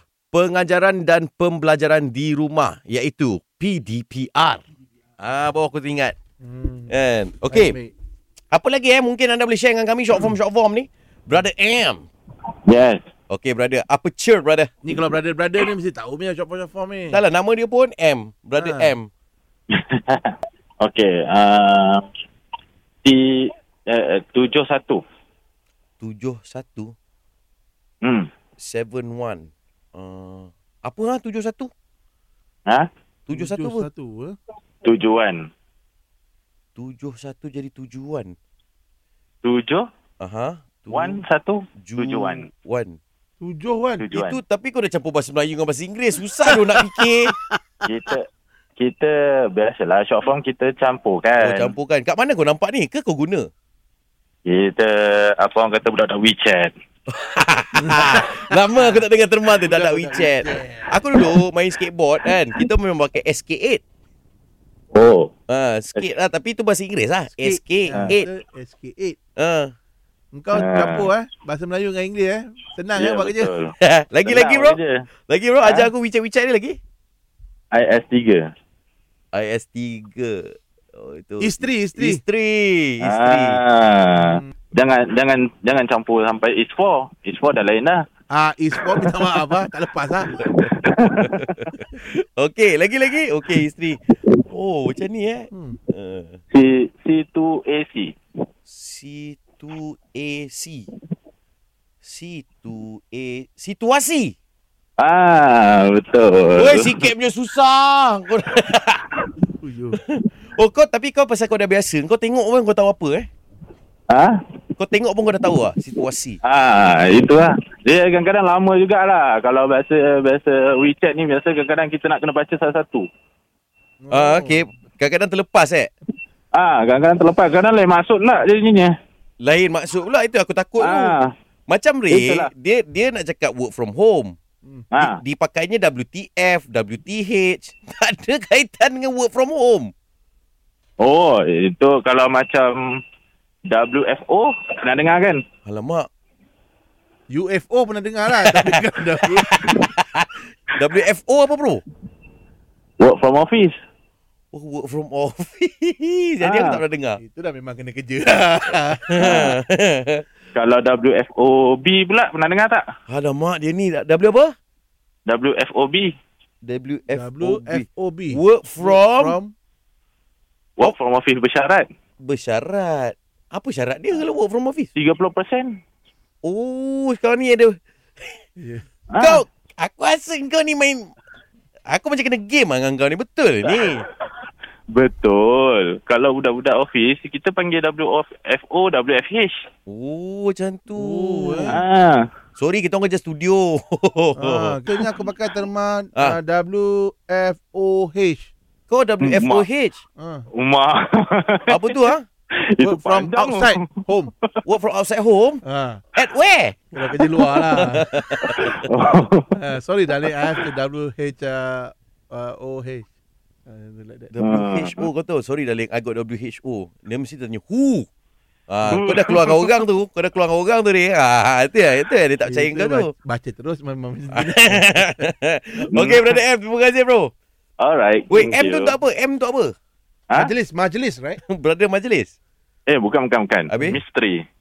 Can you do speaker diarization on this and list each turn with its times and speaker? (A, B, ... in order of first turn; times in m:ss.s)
0:00.3-0:04.6 A
0:05.2-0:06.2 A
0:06.4-0:06.9 B
0:06.9-0:07.8 A
0:07.5-0:07.9 B
0:08.5-0:12.1 A
0:12.7-0:13.0 C
0:13.3-0:14.7 A
0:14.8-0:17.2 B
0:17.1-0:19.1 A
0:18.6-0:18.9 B
0:19.7-0:22.0 C
0:23.0-0:25.0 C
0:26.0-0:26.9 A
0:28.0-0:28.3 C
0:28.6-0:31.7 A
0:33.3-0:33.9 A
0:33.3-0:34.4 B
0:34.8-0:35.4 C
0:36.8-0:38.3 A
0:39.4-0:39.8 C
0:40.2-0:41.2 A
0:40.9-0:42.5 C
0:41.8-0:43.0 A
0:43.4-0:44.0 B
0:44.0-0:44.4 C
0:44.1-0:47.3 A
0:46.5-0:47.3 B
0:47.8-0:51.7 C
0:51.4-0:53.5 A
0:54.4-0:56.7 C
0:57.1-1:03.8 A
0:57.7-0:59.0 B
0:59.6-1:01.0 B
1:04.9-1:05.3 C
1:05.5-1:08.3 A
1:07.3-1:09.2 B
1:09.4-1:09.7 A
1:10.3-1:13.5 B
1:10.5-1:11.1 C
1:12.9-1:13.7 C
1:13.8-1:16.8 A
1:14.3-1:15.0 C
1:15.6-1:15.9 C
1:17.7-1:18.5 C
1:19.3-1:23.6 A
1:21.4-1:22.2 B
1:23.0-1:28.0 C
1:24.2-1:24.5 B
1:28.3-1:30.3 B
1:30.3-1:31.7 C
1:30.4-1:36.4 A
1:35.5-1:35.8 B
1:36.5-1:38.1 C
1:38.7-1:40.9 A
1:42.0-1:44.3 A
1:45.0-1:47.0 C
1:46.6-1:49.0 A
1:49.6-1:50.0 B
1:50.0-1:53.3 A
1:54.1-1:54.4 C
1:54.8-1:56.4 A
1:56.4-2:03.1 C
2:04.0-2:04.7 B
2:04.1-2:05.9 A
2:06.5-2:08.9 C
2:09.4-2:11.2 A
2:10.8-2:11.3 C
2:11.7-2:14.4 A
2:12.1-2:12.5 C
2:14.9-2:15.2 C
2:15.0-2:19.9 A
2:21.0-2:23.0 C
2:23.7-2:25.4 C
2:25.6-2:26.1 A
2:27.3-2:29.6 B
2:28.4-2:31.8 A
2:33.0-2:33.8 C
2:34.5-2:37.2 A
2:36.4-2:36.8 C
2:37.2-2:39.3 B
2:39.1-2:40.2 A
2:39.2-2:39.6 C
2:40.5-2:42.8 C
2:43.1-2:44.5 A
2:45.2-2:46.1 C
2:46.6-2:49.4 A
2:47.1-2:49.5 B
2:50.8-2:51.9 C
2:52.2-2:54.9 A
2:54.9-2:55.8 C
2:56.4-2:57.8 A
2:58.6-2:58.8 B
2:59.1-2:59.4 C
2:59.2-3:01.0 A
3:01.9-3:04.0 A
3:04.9-3:09.6 C
3:09.9-3:11.8 A
3:10.9-3:11.8 B
3:11.7-3:12.2 C
3:12.6-3:14.8 A
3:14.4-3:18.5 B
3:18.9-3:20.0 A
3:19.2-3:19.7 C
3:20.2-3:20.4 B
3:20.5-3:22.0 C
3:21.7-3:22.2 A
3:22.6-3:24.6 C
3:22.8-3:24.3 B
3:24.6-3:25.6 A
3:25.6-3:26.0 B
3:26.2-3:26.8 A
3:26.9-3:28.1 B
3:27.5-3:28.5 A
3:28.3-3:29.5 C
3:29.5-3:33.1 B
3:30.2-3:30.6 C
3:33.6-3:34.3 B
3:34.3-3:38.1 A
3:34.4-3:35.1 C
3:38.7-3:43.1 A
3:38.9-3:39.8 C
3:42.4-3:45.3 B
3:44.3-3:47.3 A
3:45.9-3:46.3 C
3:47.8-3:48.9 C
3:48.3-3:49.7 A
3:50.4-3:51.4 B
3:51.5-3:52.3 A
3:52.9-3:54.4 C
3:53.7-3:54.0 A